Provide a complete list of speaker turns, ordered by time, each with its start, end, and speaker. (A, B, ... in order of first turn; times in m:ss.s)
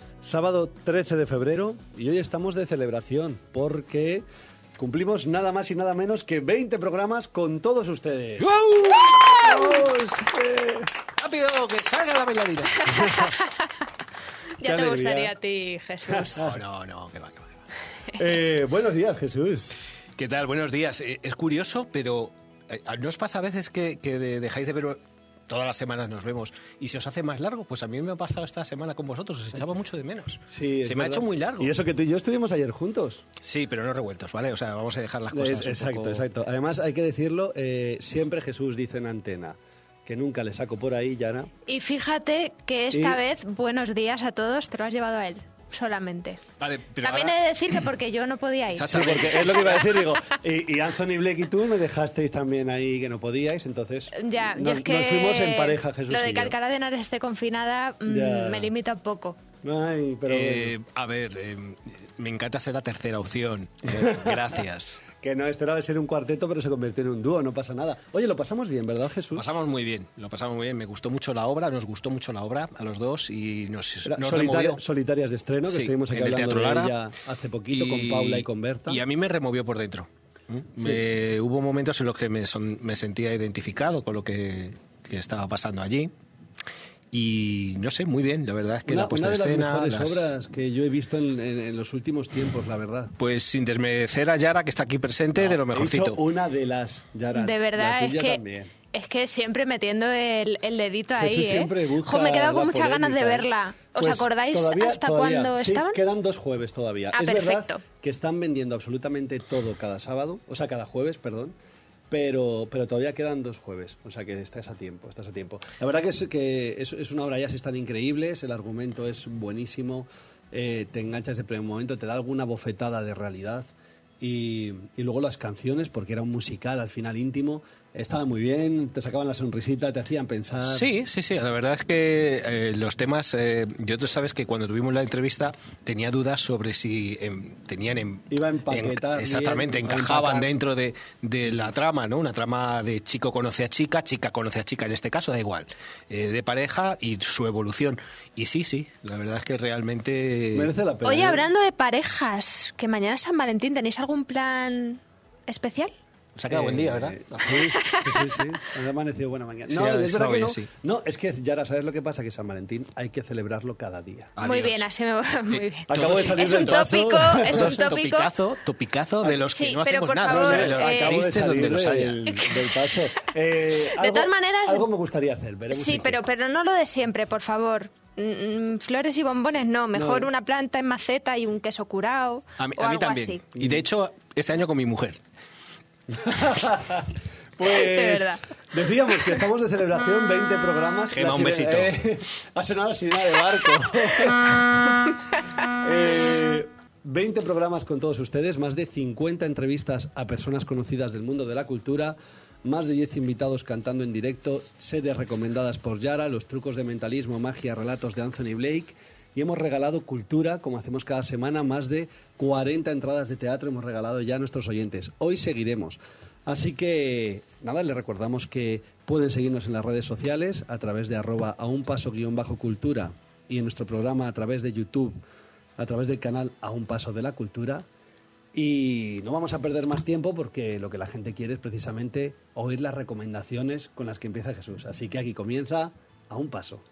0:00.2-0:04.2 A
0:04.8-0:08.6 A
0:08.4-0:09.8 B
0:09.3-0:10.9 A
0:11.2-0:12.9 B
0:12.9-0:13.7 C
0:14.6-0:16.5 C
0:14.6-0:15.3 A
0:16.1-0:16.5 A
0:16.4-0:17.6 B
0:18.2-0:19.8 A
0:20.2-0:31.7 B
0:30.5-0:33.2 A
0:33.4-0:36.3 B
0:35.3-0:41.5 A
0:41.7-0:46.4 C
0:42.9-0:43.2 A
0:46.6-0:47.4 B
0:47.0-0:49.8 C
0:48.7-0:49.8 B
0:48.9-0:56.6 A
0:54.1-0:59.4 C
0:58.1-0:58.7 A
0:59.6-1:00.7 A
1:00.3-1:05.0 B
1:03.9-1:04.4 A
1:05.2-1:09.6 A
1:09.4-1:14.8 B
1:14.1-1:19.0 A
1:15.7-1:16.9 B
1:17.7-1:26.1 B
1:20.8-1:21.0 A
1:27.1-1:30.3 B
1:28.9-1:33.1 A
1:33.2-1:36.2 B
1:35.4-1:38.7 A
1:37.3-1:38.4 C
1:38.9-1:46.0 C
1:41.2-1:51.6 A
1:47.1-1:47.8 C
1:52.1-2:03.7 A
2:04.2-2:10.9 A
2:10.6-2:30.7 B
2:18.3-2:20.5 A
2:30.5-2:31.5 A
2:31.0-2:35.9 C
2:36.4-2:38.0 B
2:36.5-2:44.3 A
2:37.6-2:38.3 C
2:39.7-2:40.7 B
2:44.4-2:44.9 B
2:44.4-2:48.3 C
2:45.5-2:52.2 B
2:45.9-2:47.8 A
2:49.5-2:51.3 C
2:50.3-2:56.2 A
2:52.3-2:52.6 C
2:53.8-2:54.9 C
2:55.7-3:03.4 C
2:59.9-3:00.3 A
3:02.6-3:05.2 B
3:03.6-3:03.8 A
3:06.2-3:14.6 A
3:07.6-3:08.4 C
3:11.1-3:12.0 B
3:15.8-3:45.2 A
3:45.8-3:47.8 A
3:48.5-3:56.8 A